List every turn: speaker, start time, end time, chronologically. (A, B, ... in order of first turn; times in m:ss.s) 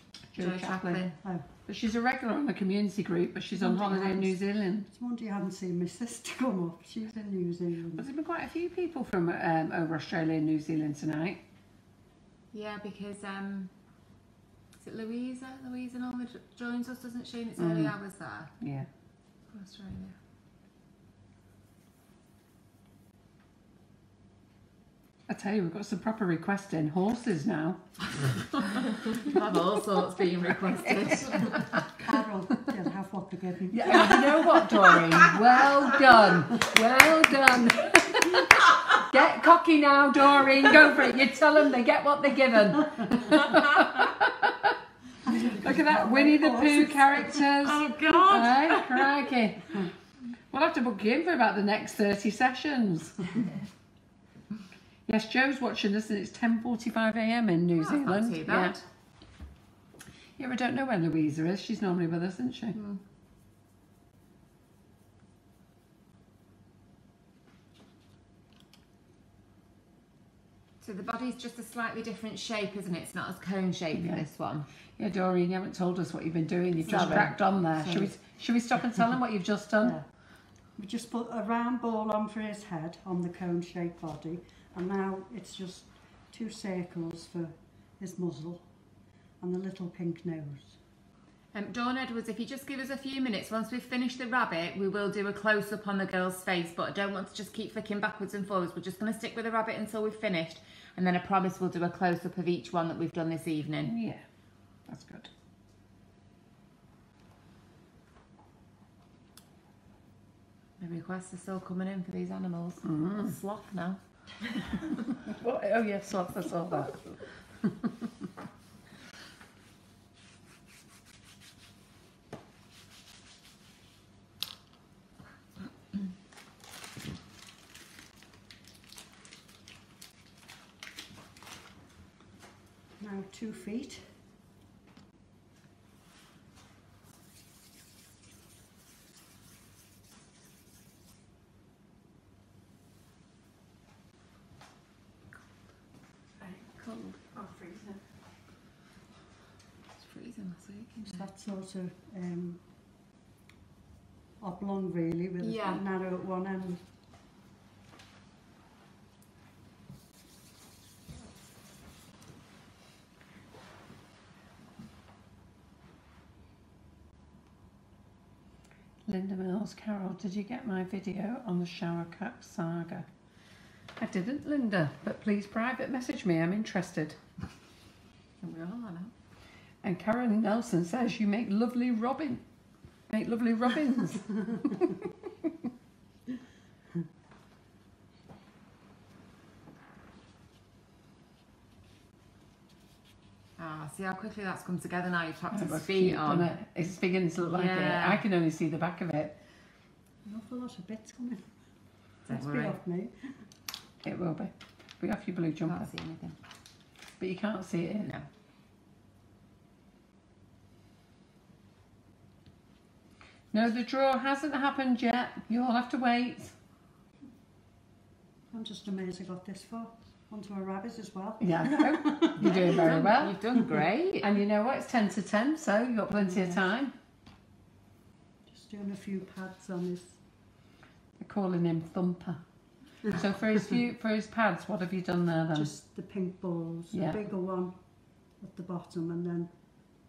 0:00.3-0:01.1 A
0:00.4-0:01.2 B
0:01.7-0:04.9 A
0:03.6-0:04.4 C
0:04.9-0:08.1 C
0:08.0-0:11.4 A
0:12.5-0:13.7 B
0:14.8-0:18.5 B
0:17.6-0:18.0 A
0:18.6-0:18.9 A
0:19.5-0:20.2 B
0:25.3-0:28.0 A
0:28.7-0:31.6 B
0:30.7-0:31.9 A
0:31.9-0:35.5 C
0:33.7-0:44.8 A
0:43.4-0:43.9 B
0:45.2-0:47.4 C
0:45.4-0:49.9 A
0:47.6-0:49.2 B
0:50.5-0:53.4 A
0:55.1-0:58.8 A
0:57.8-0:58.8 B
1:00.4-1:02.8 A
1:02.8-1:03.0 B
1:10.8-1:14.7 B
1:13.9-1:14.2 A
1:15.0-1:20.0 A
1:16.8-1:18.1 C
1:20.8-1:28.7 C
1:29.4-1:30.8 C
1:31.5-1:43.9 B
1:43.9-1:44.2 A
1:44.9-1:45.3 A
1:50.8-1:54.0 B
1:52.9-1:53.3 A
1:55.2-1:57.9 A
2:13.0-2:14.2 C
2:26.7-2:27.3 B
2:27.3-2:28.0 A
2:30.0-2:31.3 B
2:31.1-2:32.6 C
2:34.4-2:36.9 C
2:35.4-2:35.8 B
2:49.1-2:53.1 A
2:54.0-2:57.2 A
2:58.4-2:59.1 B
2:59.8-3:02.4 A
3:03.1-3:05.1 A
3:13.6-3:16.5 B
3:15.5-3:19.3 A
3:17.4-3:18.2 B
3:20.2-3:21.6 C
3:22.3-3:22.8 B
3:22.3-3:23.4 C
3:24.0-3:25.9 A
3:25.6-3:26.4 B
3:27.2-3:28.1 A
3:33.5-3:36.5 A
3:38.5-3:42.7 C
3:41.4-3:43.4 A
3:42.4-3:44.3 B
3:44.2-3:46.9 A
3:46.2-3:46.6 C
3:48.5-3:50.2 C
3:51.2-3:52.4 A
3:53.1-3:55.7 A
3:55.5-3:57.8 C
3:56.9-3:57.2 A
3:58.4-3:59.5 C